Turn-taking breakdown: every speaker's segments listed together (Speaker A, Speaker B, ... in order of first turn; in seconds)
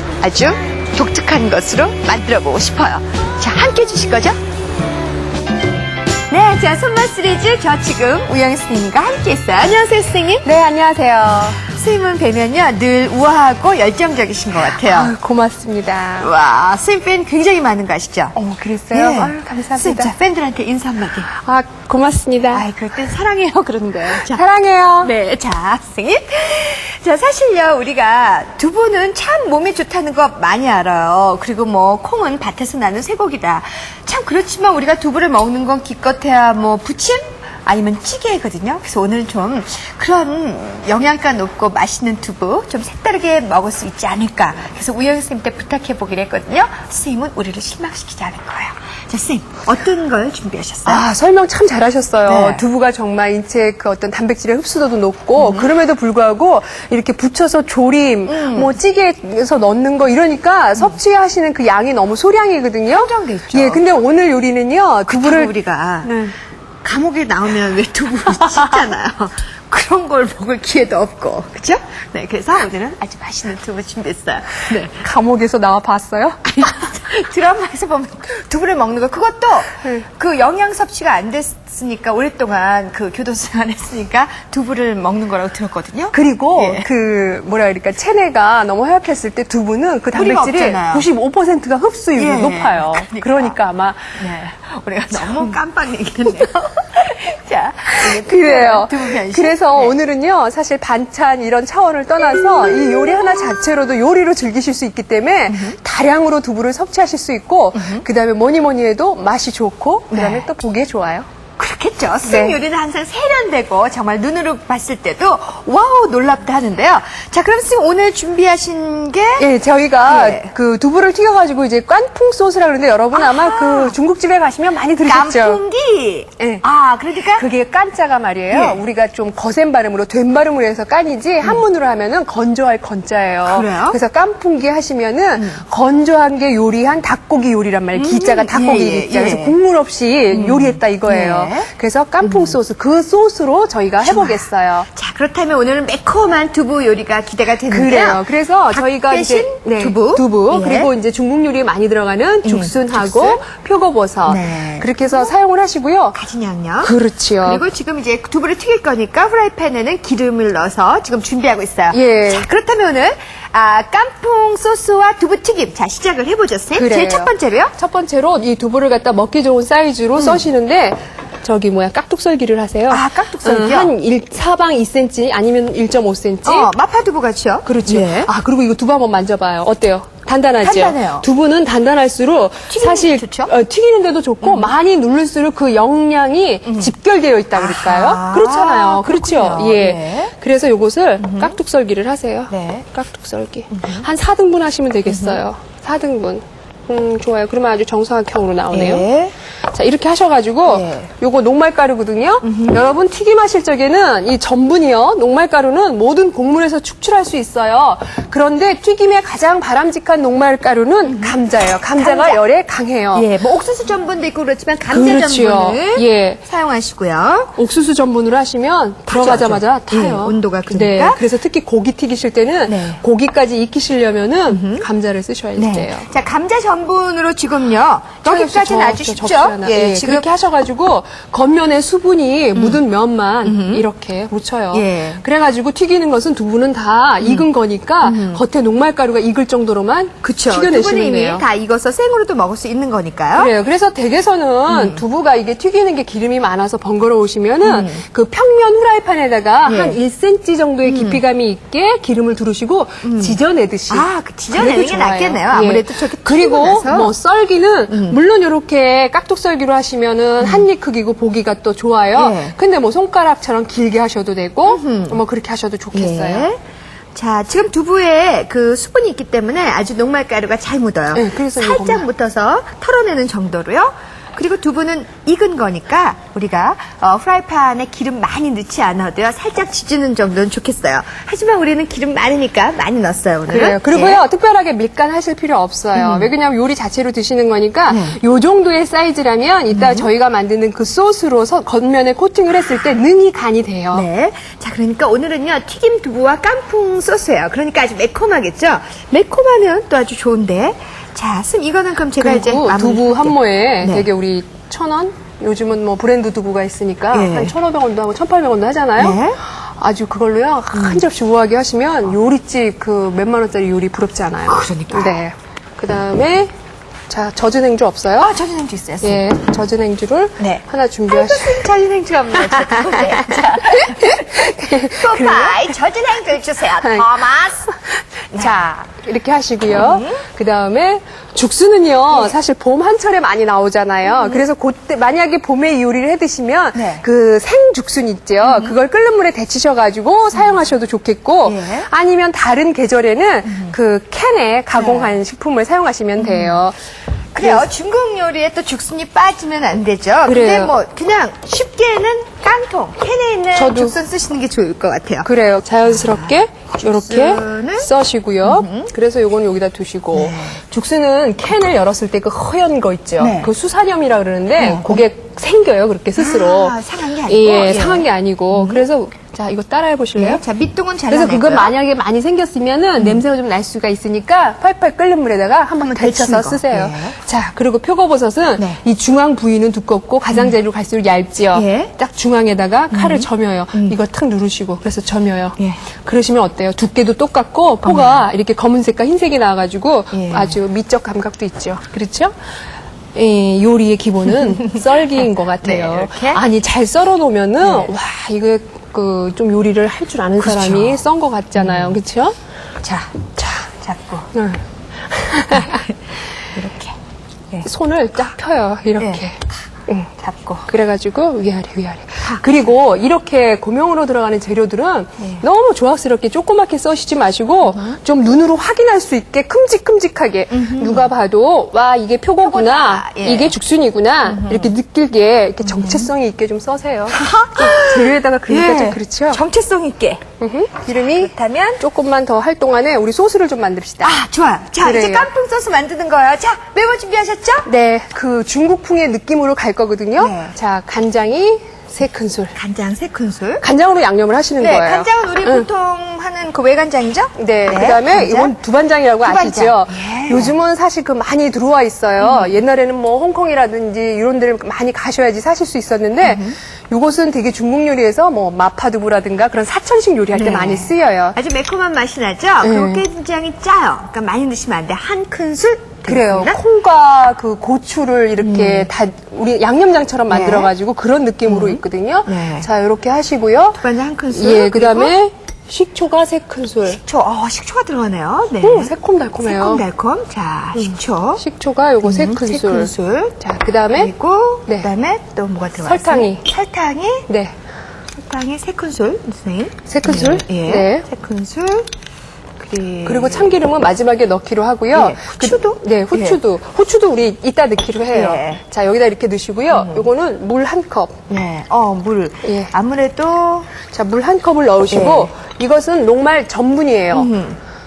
Speaker A: 0.2-4.4, 6.3-10.4, 11.7-15.1, 16.2-18.4, 18.9-21.3, 22.5-24.4, 25.0-51.0, 52.2-52.6, 55.4-55.7, 58.3-58.8, 62.9-63.8, 65.1-66.1, 66.8-74.9, 76.5-86.9, 90.1-91.0, 92.1-93.5, 94.2-100.0, 102.2-103.6, 105.5-105.8, 107.7-108.0, 110.1-110.5, 111.6-119.5, 120.0-120.5, 123.1-123.9, 125.0-127.4, 128.5-128.8, 133.4-134.0, 135.4-135.6, 137.9-139.6, 140.3-141.7, 142.2-142.6, 144.0-150.9, 152.4-153.4, 154.2-155.3, 156.1-167.7, 170.2-170.4, 172.9-173.9, 176.4-178.3, 180.6-181.2, 182.7-183.5, 184.4-184.7, 186.7-186.9, 187.5-190.3, 191.2-191.6, 192.5-192.8, 193.7-194.1, 195.1-195.4, 198.7-199.3, 200.7-201.1, 202.4-202.8, 211.0-211.3, 212.0-212.4, 213.1-217.5, 219.1-221.2, 222.7-223.0, 224.5-224.8, 225.6-230.3, 232.5-232.8, 233.4-233.8, 234.7-235.2, 237.2-237.5, 238.0-238.4, 240.2-243.5, 244.7-245.0, 247.6-248.0, 249.7-250.0, 250.8-251.2, 253.0-253.4, 253.9-257.1, 257.9-258.2, 260.4-260.7, 262.1-262.6, 264.6-265.2, 265.9-266.6, 267.1-284.2, 285.9-286.3, 287.9-288.2, 289.7-290.1, 293.9-304.1, 307.1-307.5, 309.0-309.4, 310.7-311.1, 314.5-315.2, 318.2-319.2, 320.4-327.7, 328.4-328.6, 329.7-330.2, 334.0-334.4, 336.7-337.0, 338.4-338.7, 340.3-340.6, 341.4-341.9, 343.4-343.7, 344.7-345.1, 346.2-346.6, 347.3-355.3, 355.9-357.9, 358.4-358.9, 360.1-360.6, 363.2-363.5, 364.6-365.0, 366.1-368.8, 370.1-371.7, 373.0-373.2, 375.8-377.2, 380.3-380.6, 381.5-381.9, 382.9-384.0, 387.8-388.2, 390.1-390.6, 394.4-394.8, 395.6-396.4, 397.6-397.9, 400.4-401.0, 401.5-402.0, 402.8-404.3, 405.5-405.9, 406.5-406.9, 409.0-409.5, 410.2-410.7, 412.2-412.6, 417.6-418.0, 420.5-421.1, 422.4-423.6, 424.2-424.7, 425.6-426.1, 427.1-430.2, 430.9-431.8, 434.0-437.7, 440.2-440.5, 442.5-443.6, 444.6-448.6, 449.2-450.5, 452.2-452.6, 456.2-456.6, 460.3-466.6, 468.4-468.9, 470.3-470.7, 471.4-472.7, 473.8-475.1, 476.9-481.4, 482.0-483.4, 483.9-487.3, 488.1-491.9, 492.6-493.6, 494.9-496.4, 498.1-498.6, 499.7-500.1, 501.3-503.7, 504.9-505.3, 507.1-507.6
Speaker B: 10.4-11.6, 14.5-16.3, 18.3-20.1, 21.3-22.7, 24.1-25.1, 50.8-66.3, 75.0-76.7, 79.8-80.1, 86.1-94.2, 95.1-95.6, 97.9-111.3, 112.2-112.6, 119.4-125.6, 126.4-126.6, 127.2-144.9, 147.7-156.2, 156.8-157.6, 161.9-162.5, 166.7-176.7, 177.7-199.1, 199.7-213.3, 214.9-216.4, 217.6-226.1, 228.2-241.4, 243.3-266.5, 271.1-272.1, 283.5-294.1, 302.2-316.5, 317.1-318.4, 319.0-321.6, 322.4-325.7, 326.8-327.2, 327.9-346.8, 347.4-347.7, 350.2-350.7, 353.5-354.0, 355.2-370.4, 371.1-392.3, 393.1-402.4, 404.3-405.8, 407.6-410.1, 410.7-429.4, 430.4-434.2, 434.8-435.3, 437.6-442.5, 443.6-445.7, 447.4-461.3, 462.6-463.1, 466.1-477.0, 478.6-479.8, 480.7-484.1, 485.8-486.4, 487.3-487.5, 489.9-491.1, 493.0-501.2, 502.4-502.7, 503.9-507.3